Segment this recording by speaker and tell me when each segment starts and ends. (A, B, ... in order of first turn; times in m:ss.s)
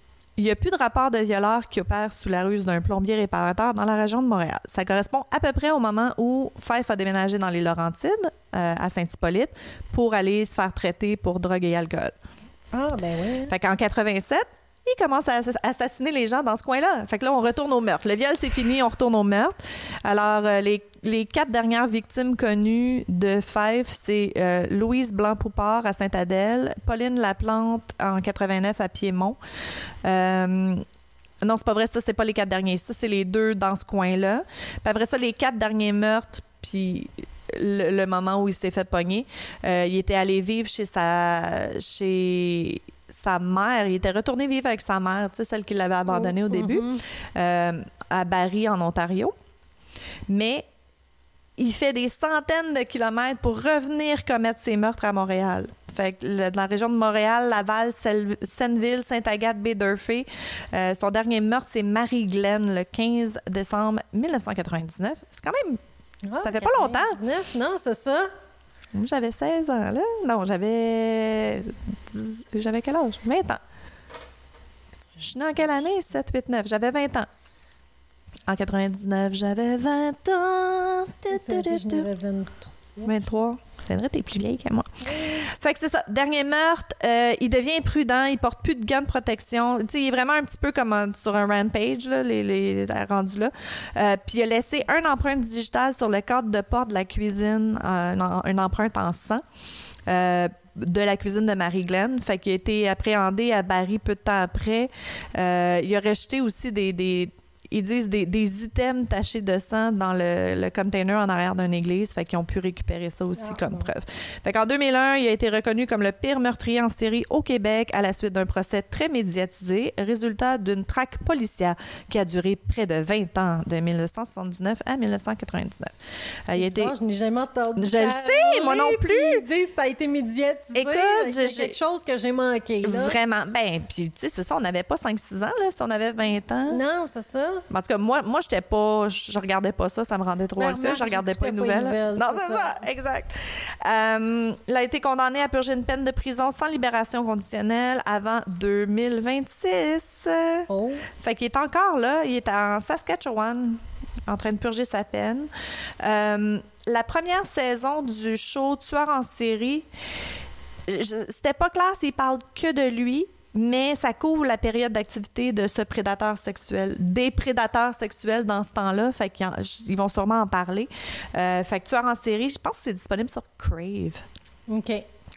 0:00.4-0:12.1 A
0:12.7-0:13.5 B
0:13.5-0:29.4 A
0:30.0-0:30.8 A
0:31.4-0:49.3 A
0:46.1-0:47.0 B
0:50.3-0:50.7 A
0:51.6-1:05.8 A
1:06.2-1:08.3 B
1:06.4-1:07.2 A
1:08.9-1:13.6 A
1:15.2-1:17.3 A
1:18.5-1:22.1 A
1:21.3-1:23.1 B
1:23.0-1:39.4 A
1:40.1-2:05.9 A
1:53.4-1:53.9 B
2:06.5-2:06.9 A
2:06.5-2:13.2 B
2:07.8-2:09.4 A
2:10.7-2:11.8 A
2:12.8-2:16.8 A
2:16.7-2:17.6 B
2:17.7-2:35.5 A
2:20.6-2:22.8 B
2:30.7-2:31.1 B
2:36.0-2:39.9 A
2:40.9-2:54.2 A
2:54.7-2:55.1 B